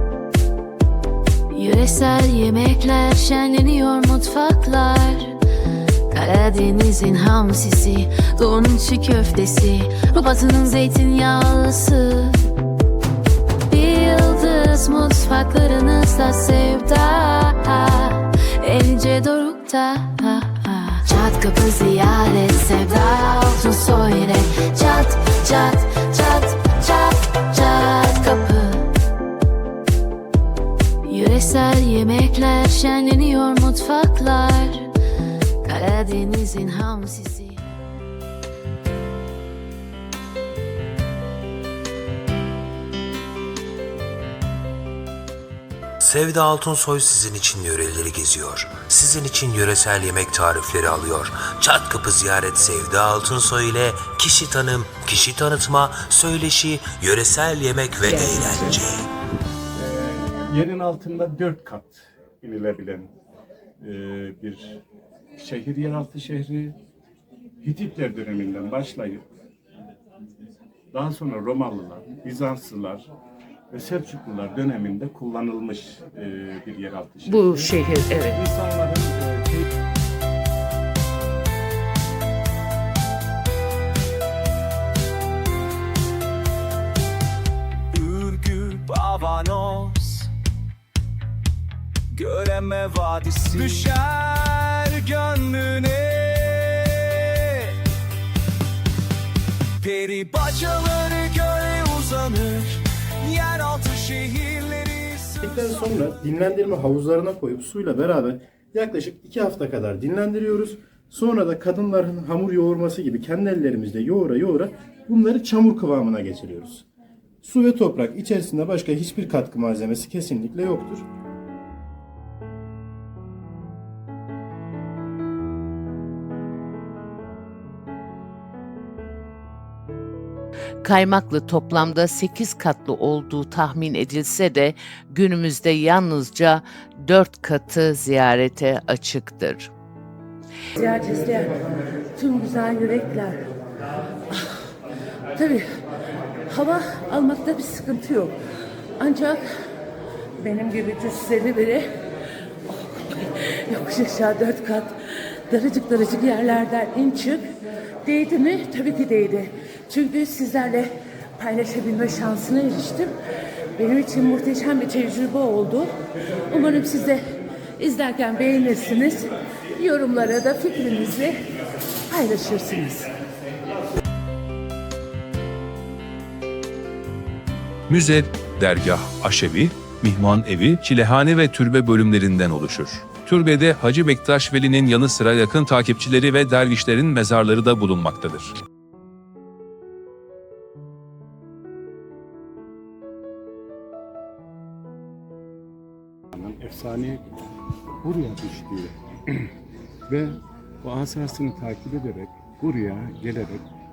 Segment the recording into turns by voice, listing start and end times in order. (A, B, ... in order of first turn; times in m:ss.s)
0:01.5-0:05.4 A
0:06.1-0:12.4 A
0:13.6-0:28.9 A
0:31.0-0:34.9 A
0:35.6-0:37.6 A
0:46.0-0:59.0 B
0:58.0-0:58.8 C
0:59.8-1:03.1 D
1:03.8-1:04.8 D
1:05.4-1:06.8 D
1:07.6-1:09.2 D
1:10.9-1:13.0 D
1:13.7-1:19.6 D
1:17.3-1:18.4 C
1:27.9-1:30.3 E
1:32.1-1:37.7 E
1:39.8-1:45.8 E
1:45.4-1:56.8 F
1:57.4-2:01.1 F
2:10.8-2:19.7 C
2:20.8-2:21.6 G
2:22.1-2:23.4 G
2:25.4-2:25.6 G
2:26.5-2:28.3 G
2:29.0-2:29.4 G
2:30.4-2:31.9 G
2:32.7-2:34.9 G
2:35.5-2:37.4 G
2:38.0-2:43.1 G
2:43.8-2:45.9 G
2:46.5-2:47.2 G
2:47.8-2:51.4 G
2:52.1-2:53.0 G
2:57.9-3:08.5 H
3:16.3-3:17.2 D
3:18.0-3:19.5 D
3:20.1-3:23.6 D